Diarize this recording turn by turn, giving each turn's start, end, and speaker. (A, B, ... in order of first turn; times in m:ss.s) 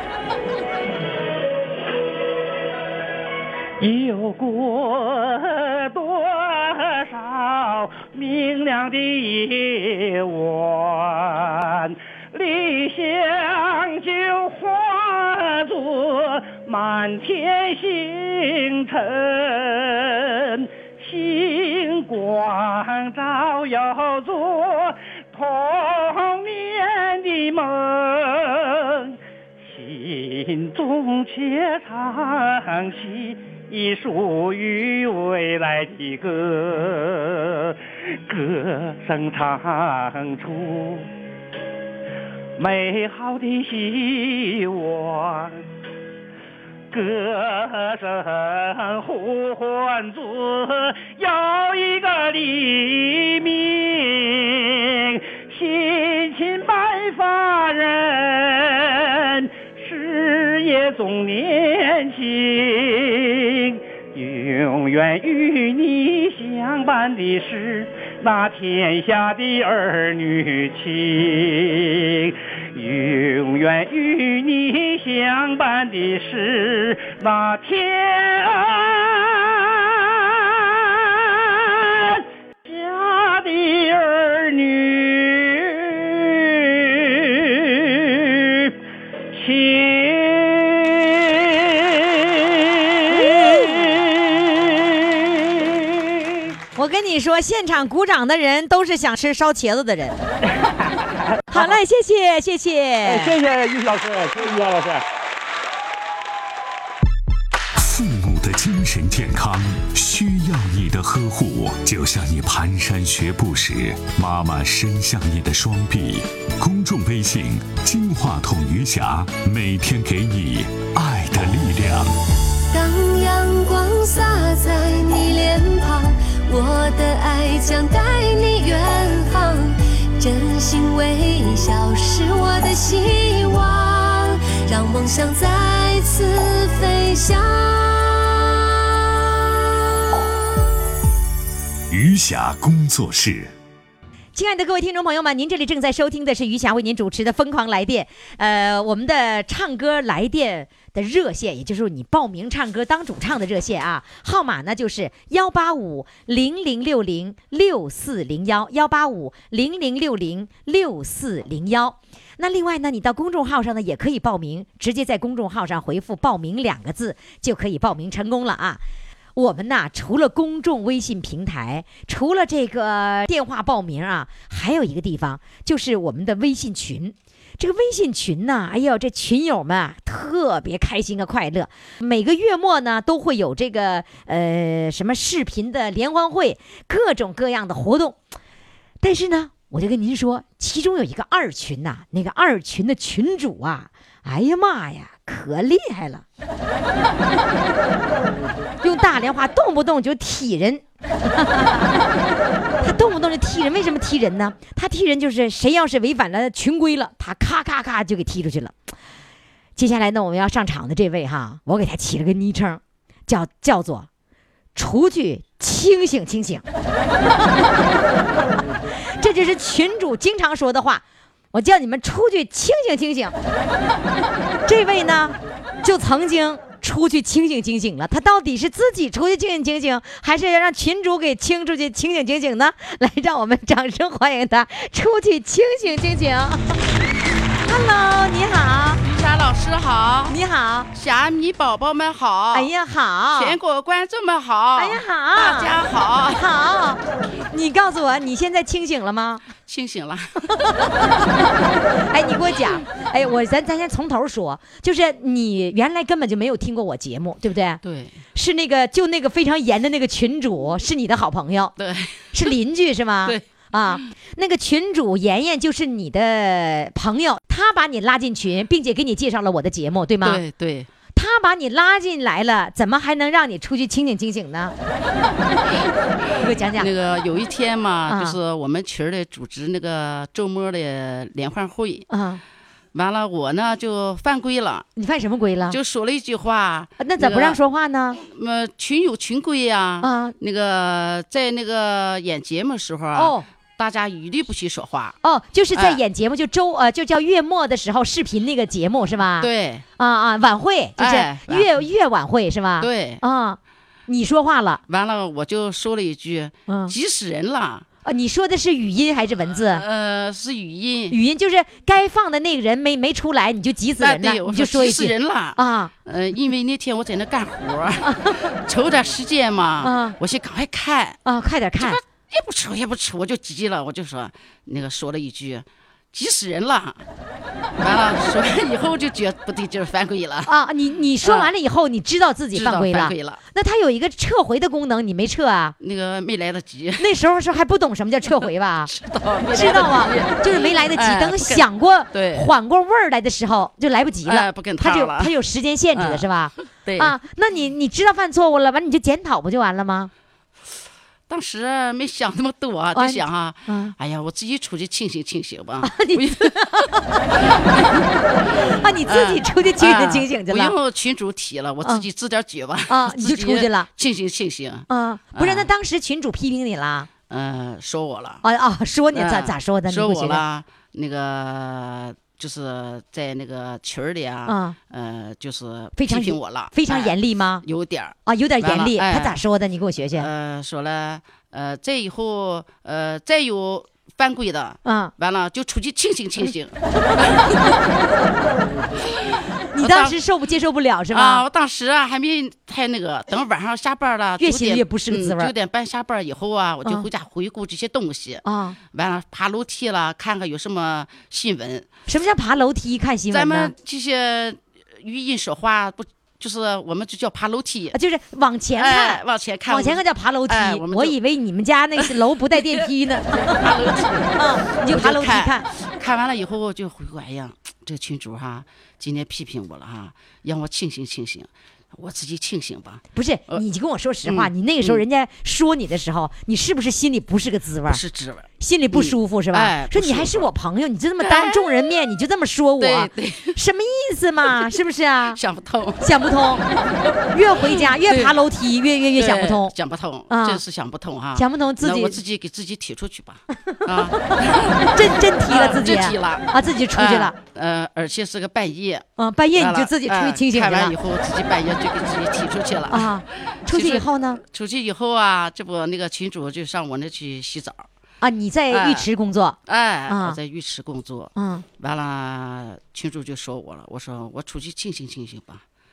0:03.8-0:41.1 A
0:42.6-0:45.6 A
0:46.9-1:28.8 A
1:29.3-1:36.5 A
1:33.1-1:33.8 B
1:36.8-1:40.2 B
1:40.5-1:41.8 A
1:41.5-1:43.4 B
1:43.0-1:45.0 A
1:47.8-2:02.1 C
2:02.7-2:18.7 D
2:21.9-2:23.5 C
2:24.3-2:48.8 B
2:49.4-3:08.2 B
3:09.0-3:16.2 B
3:18.8-3:22.0 B
3:22.8-3:28.7 B
3:29.8-3:34.1 B
3:34.7-3:36.6 B
3:37.4-3:37.8 B
3:39.2-3:43.3 B
3:44.6-3:56.8 B
3:57.6-3:59.0 B
3:59.0-4:00.4 E
4:00.3-4:00.9 B
4:00.9-4:02.7 E
4:02.5-4:03.6 B
4:03.3-4:06.5 E
4:04.8-4:05.7 B
4:06.3-4:09.4 B
4:09.6-4:10.9 E
4:10.8-4:11.5 B
4:12.1-4:17.8 B
4:17.8-4:18.2 E
4:18.3-4:21.7 B
4:21.8-4:22.5 E
4:22.3-4:30.4 B
4:30.2-4:30.9 E
4:31.2-4:34.7 B
4:36.4-4:36.9 B
4:36.4-4:42.1 E
4:38.1-4:38.4 B
4:42.1-4:42.4 B
4:42.9-4:44.9 E
4:45.0-4:45.8 B
4:45.7-4:47.6 E
4:47.0-4:48.2 B
4:48.2-4:55.2 E
4:50.0-4:50.3 B
4:53.1-4:53.4 B
4:55.2-5:04.8 B
4:55.7-4:56.0 E
4:59.4-4:59.8 E
5:01.0-5:01.8 E
5:02.8-5:03.2 E
5:04.9-5:07.8 E
5:06.7-5:06.9 B
5:08.0-5:09.8 B
5:09.6-5:11.2 E
5:11.1-5:15.9 B
5:14.0-5:21.2 E
5:18.1-5:18.4 B
5:19.8-5:20.2 B
5:21.2-5:22.0 B
5:21.8-5:27.0 E
5:27.8-5:30.5 E
5:30.4-5:35.8 B
5:31.2-5:31.5 E
5:32.5-5:33.4 E
5:35.8-5:37.1 E
5:37.0-5:38.9 B
5:38.9-5:42.5 E
5:39.5-5:50.1 B
5:44.2-5:45.3 E
5:45.9-5:47.1 E
5:51.3-5:56.9 E
5:52.9-5:53.9 B
5:55.8-5:57.2 B
5:58.5-6:05.7 E
5:58.6-6:00.7 B
6:02.9-6:03.9 B
6:04.9-6:07.1 B
6:07.3-6:08.4 E
6:08.4-6:10.4 B
6:09.1-6:19.4 E
6:14.4-6:14.8 B
6:16.0-6:17.6 B
6:18.3-6:20.3 B
6:20.1-6:27.8 E
6:24.8-6:25.1 B
6:27.0-6:27.7 B
6:29.0-6:30.2 E
6:29.7-6:31.4 B
6:31.1-6:41.9 E
6:34.4-6:35.5 B
6:38.4-6:38.8 B
6:42.1-6:43.7 B
6:43.3-6:48.0 E
6:47.9-6:53.7 B
6:48.8-6:51.2 E
6:52.0-7:03.6 E
6:54.3-6:55.6 B
7:03.1-7:08.0 B
7:04.2-7:05.0 E
7:07.9-7:10.5 E
7:08.6-7:15.4 B
7:11.2-7:12.0 E
7:12.8-7:13.6 E
7:15.3-7:18.4 E
7:16.0-7:16.6 B
7:17.3-7:19.7 B
7:19.2-7:37.8 E
7:20.3-7:20.6 B
7:21.3-7:22.2 B
7:24.9-7:27.3 B
7:29.2-7:30.9 B
7:32.9-7:34.4 B
7:38.2-7:39.6 B
7:38.7-7:39.1 E
7:39.6-7:45.6 E
7:40.1-7:40.4 B
7:41.4-7:41.6 B